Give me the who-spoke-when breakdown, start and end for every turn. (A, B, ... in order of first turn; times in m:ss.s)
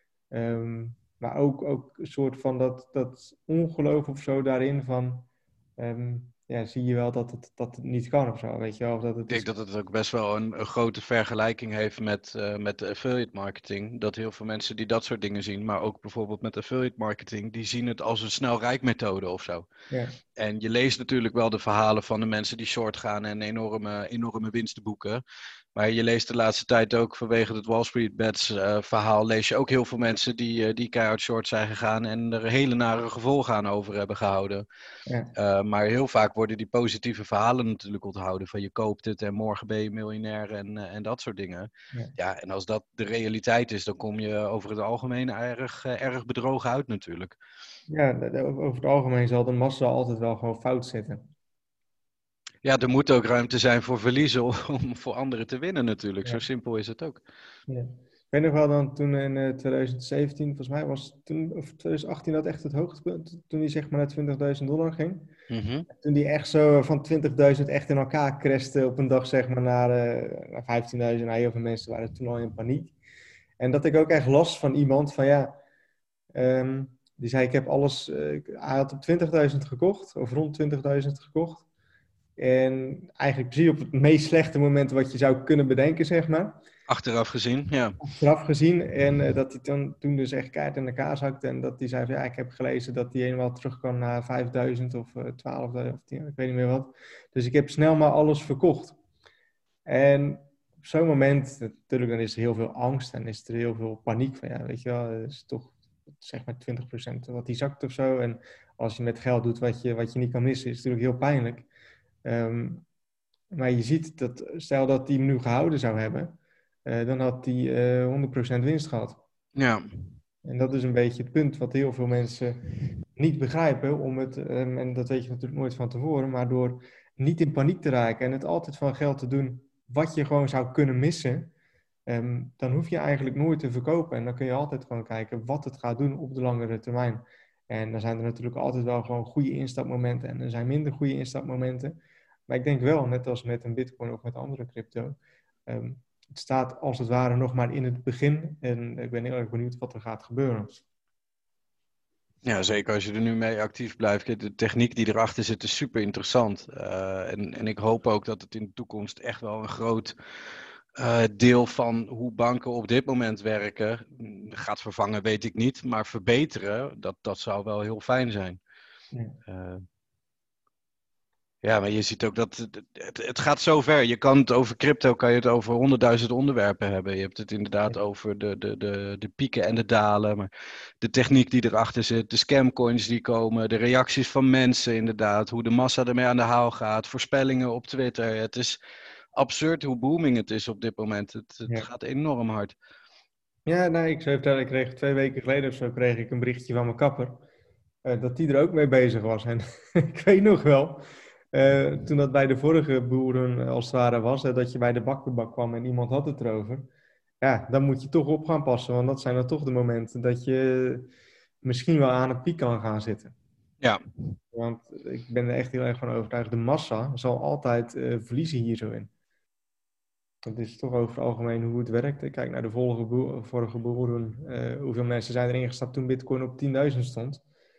0:00.3-0:05.3 A
0:05.8-0:09.5 A
0:09.3-0:19.7 B
0:19.9-0:20.2 A
0:20.4-0:25.2 B
0:25.8-0:34.6 B
0:35.1-0:35.3 A
0:35.4-0:47.4 B
0:47.9-0:51.3 A
0:52.6-0:57.2 B
0:57.7-1:05.3 A
1:05.5-1:05.9 B
1:05.9-1:13.0 A
1:13.6-1:15.6 A
1:16.3-1:21.6 A
1:22.4-1:26.6 A
1:26.9-1:28.0 B
1:28.0-1:39.0 A
1:39.9-1:51.7 A
1:52.2-1:52.8 A
1:53.5-1:59.2 A
1:59.6-1:59.8 B
2:00.4-2:02.6 A
2:03.2-2:11.5 A
2:12.1-2:30.8 A
2:32.4-2:40.2 B
2:41.0-2:48.6 B
2:49.5-2:49.8 B
2:51.6-3:00.5 B
3:01.0-3:08.8 B
3:09.4-3:12.8 B
3:13.7-3:17.4 A
3:18.0-3:26.9 A
3:27.4-3:33.3 A
3:34.5-3:39.1 A
3:40.4-3:47.4 A